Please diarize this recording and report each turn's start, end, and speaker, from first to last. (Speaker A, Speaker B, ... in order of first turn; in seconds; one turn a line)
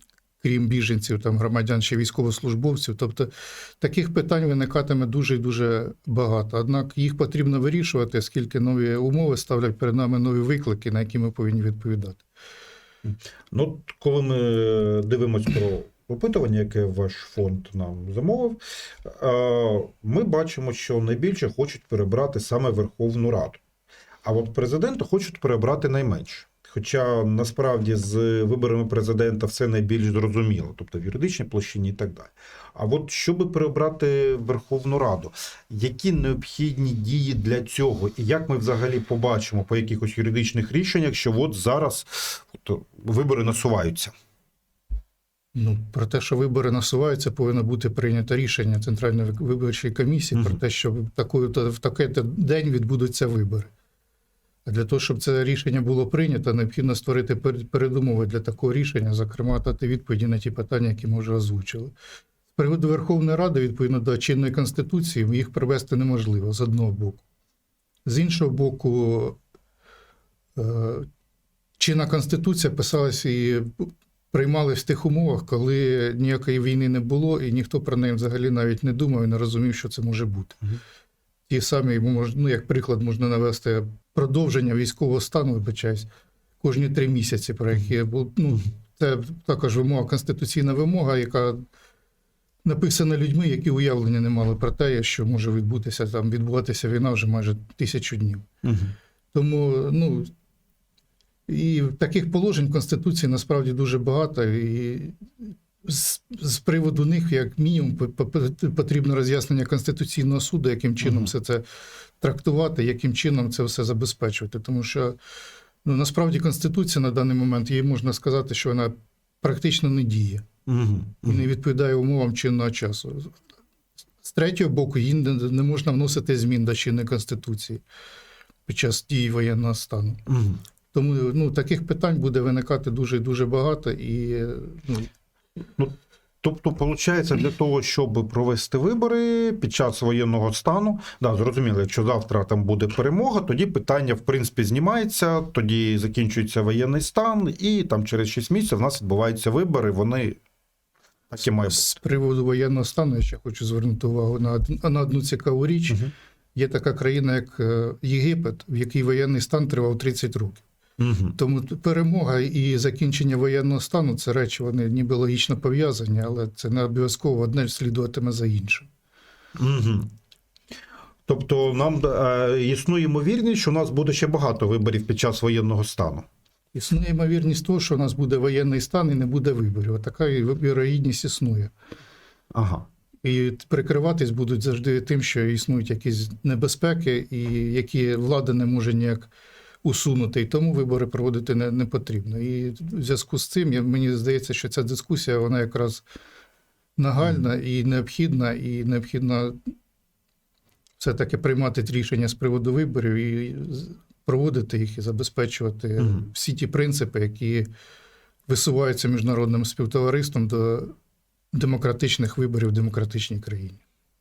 Speaker A: 0.4-12.2
Speaker B: 13.1-23.6
Speaker B: 24.2-44.1
Speaker A: 45.5-53.7
Speaker A: 54.7-61.9
Speaker A: 62.5-67.2
Speaker A: 68.0-69.4
Speaker A: 70.6-71.1
Speaker A: 71.8-80.6
Speaker A: 81.5-86.1
Speaker A: 86.6-91.6
Speaker A: 92.6-98.5
Speaker B: 98.6-98.9
Speaker A: 99.3-100.3
Speaker A: 101.5-105.2
Speaker A: 105.8-111.6
Speaker B: 111.0-111.3
Speaker A: 112.2-115.2
Speaker A: 115.8-120.5
Speaker B: 120.7-121.5
Speaker A: 121.2-123.3
Speaker A: 124.2-127.8
Speaker A: 128.7-130.2
Speaker B: 130.3-130.6
Speaker A: 130.9-135.1
Speaker B: 135.8-150.4
Speaker B: 151.3-151.9
Speaker A: 151.7-156.0
Speaker A: 156.6-160.6
Speaker B: 161.0-161.4
Speaker A: 161.4-168.9
Speaker B: 169.6-170.1
Speaker B: 171.3-176.3
Speaker A: 176.7-181.7
Speaker B: 182.5-182.9
Speaker A: 183.2-189.3
Speaker A: 189.8-196.1
Speaker A: 197.0-199.6
Speaker A: 201.0-207.7
Speaker B: 206.0-206.3
Speaker A: 208.5-210.9
Speaker A: 211.5-213.8